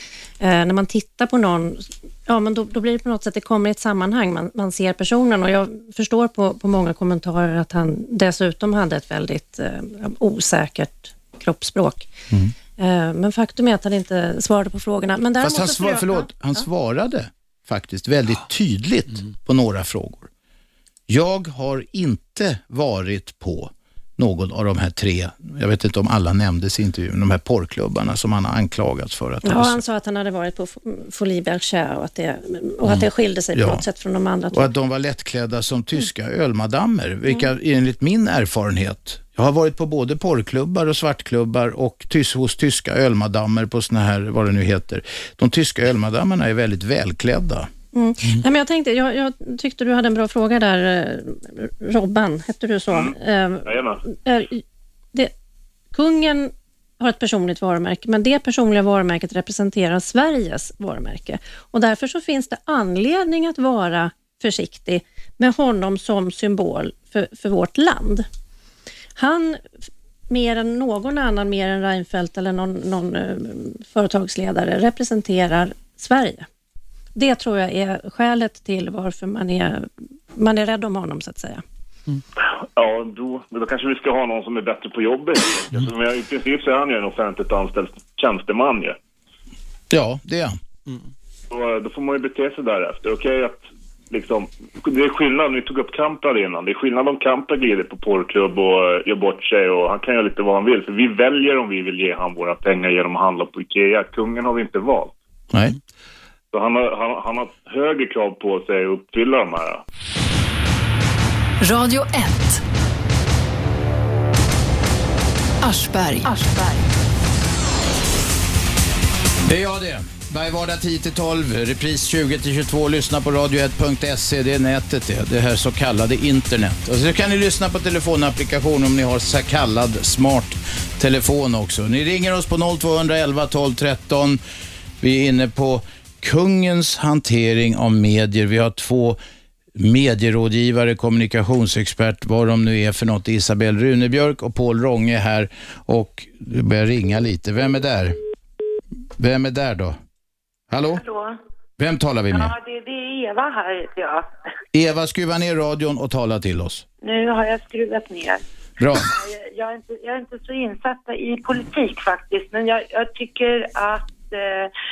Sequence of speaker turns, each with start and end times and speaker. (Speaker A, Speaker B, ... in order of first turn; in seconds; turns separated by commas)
Speaker A: 0.4-12.1, Speaker A: 12.8-16.6, Speaker B: 15.4-20.3, Speaker B: 21.1-29.8, Speaker A: 29.4-34.7, Speaker B: 32.8-33.8, Speaker B: 34.5-47.7, Speaker A: 47.9-54.6, Speaker C: 53.6-54.0, Speaker A: 55.9-68.2, Speaker A: 69.2-69.6, Speaker A: 70.3-76.5, Speaker A: 77.1-81.6, Speaker C: 82.6-89.0, Speaker B: 89.9-90.6, Speaker C: 91.5-105.2, Speaker C: 106.5-109.8, Speaker D: 111.6-112.6, Speaker D: 115.6-117.3, Speaker B: 119.5-134.4, Speaker B: 135.0-139.2, Speaker B: 139.8-148.2, Speaker B: 149.2-150.0, Speaker B: 150.7-151.0, Speaker E: 150.9-151.4, Speaker B: 151.8-152.6, Speaker E: 152.3-154.3, Speaker B: 154.7-156.8, Speaker E: 157.0-158.4, Speaker B: 158.8-159.1, Speaker E: 159.0-164.7